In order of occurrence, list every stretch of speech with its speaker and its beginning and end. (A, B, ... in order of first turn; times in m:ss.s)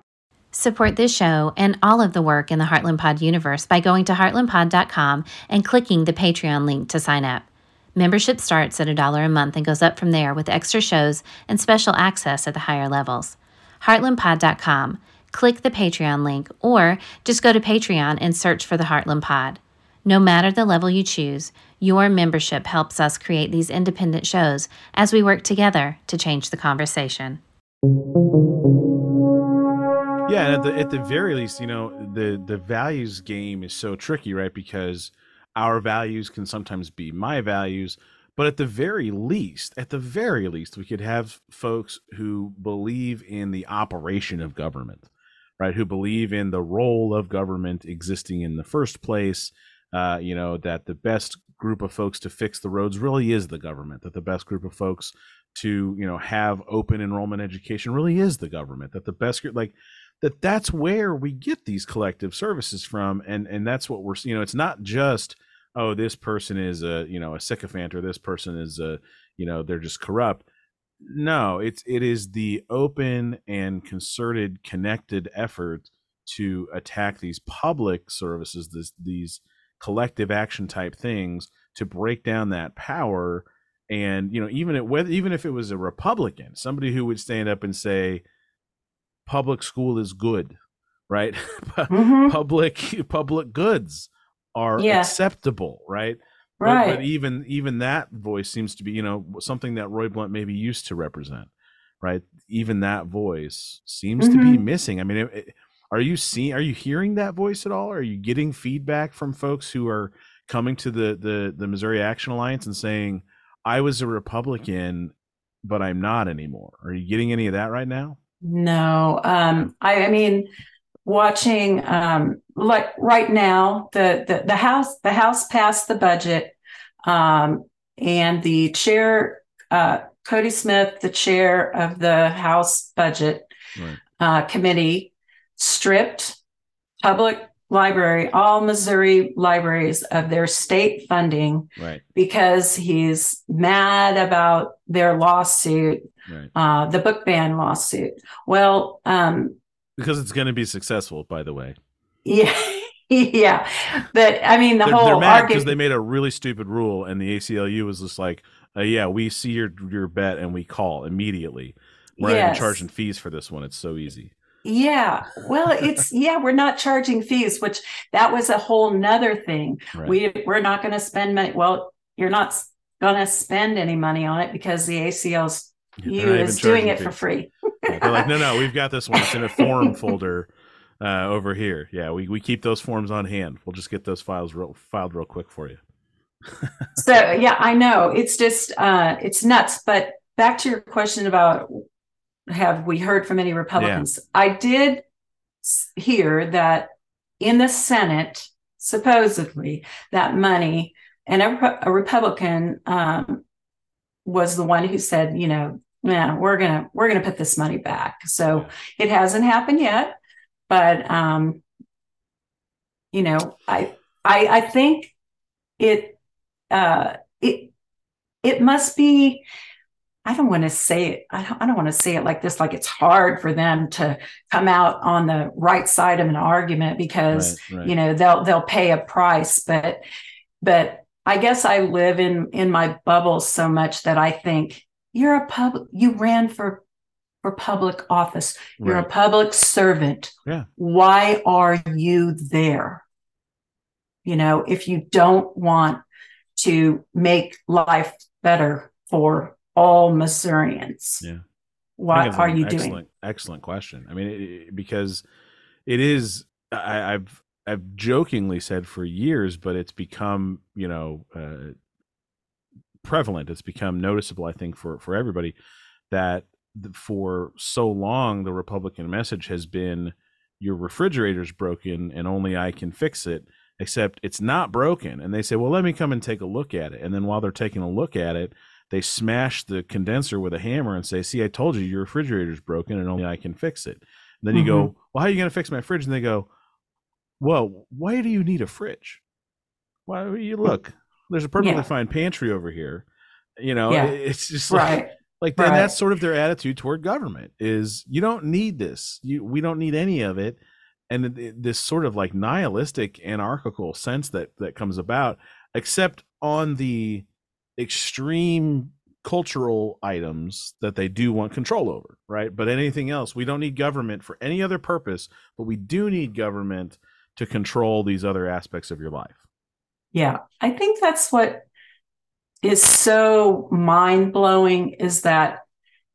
0:00.5-0:27.4 A
0:30.3-0:45.1 B
0:45.6-1:10.4 B
1:11.0-1:28.2 B
1:29.2-1:30.5 B
1:31.1-1:41.5 B
1:31.9-1:32.4 C
1:34.8-1:35.1 C
1:36.6-1:37.0 C
1:42.0-1:58.2 B
1:44.2-1:44.6 C
1:58.4-2:00.5 C
2:01.0-2:13.5 C
2:14.2-2:16.4 C
2:17.0-2:29.6 C
2:21.8-2:22.0 B
2:30.0-2:31.8 B
2:32.2-2:35.7 C
2:34.8-2:44.3 B
2:42.2-2:42.8 C
2:44.6-2:58.5 C
2:56.0-2:57.2 B
2:57.9-3:05.8 B
2:59.2-3:00.0 C
3:06.6-3:06.9 B
3:07.0-3:11.8 C
3:12.5-3:15.0 C
3:13.8-3:14.1 B
3:15.6-3:23.4 C
3:24.2-3:30.2 C
3:30.7-3:31.6 C
3:33.1-3:35.1 C
3:35.8-3:36.2 C
3:36.7-3:37.7 C
3:38.4-3:39.4 C
3:40.2-3:50.0 C
3:47.3-3:47.9 B
3:50.6-3:56.8 C
3:57.4-4:03.0 C
3:58.8-3:59.1 B
4:04.2-4:06.0 C
4:06.6-4:11.2 C
4:12.0-4:13.0 C
4:12.1-4:15.2 B
4:15.8-4:21.7 B
4:23.0-4:25.6 B
4:26.1-4:46.5 B
4:44.5-4:44.9 C
4:47.4-4:49.2 B
4:50.1-4:53.0 B
4:51.6-4:51.9 C
4:53.6-5:00.6 B
4:53.9-4:54.2 C
4:54.7-4:55.9 C
5:01.1-5:07.2 B
5:07.8-5:19.4 B
5:20.1-5:21.6 C
5:22.6-5:25.6 C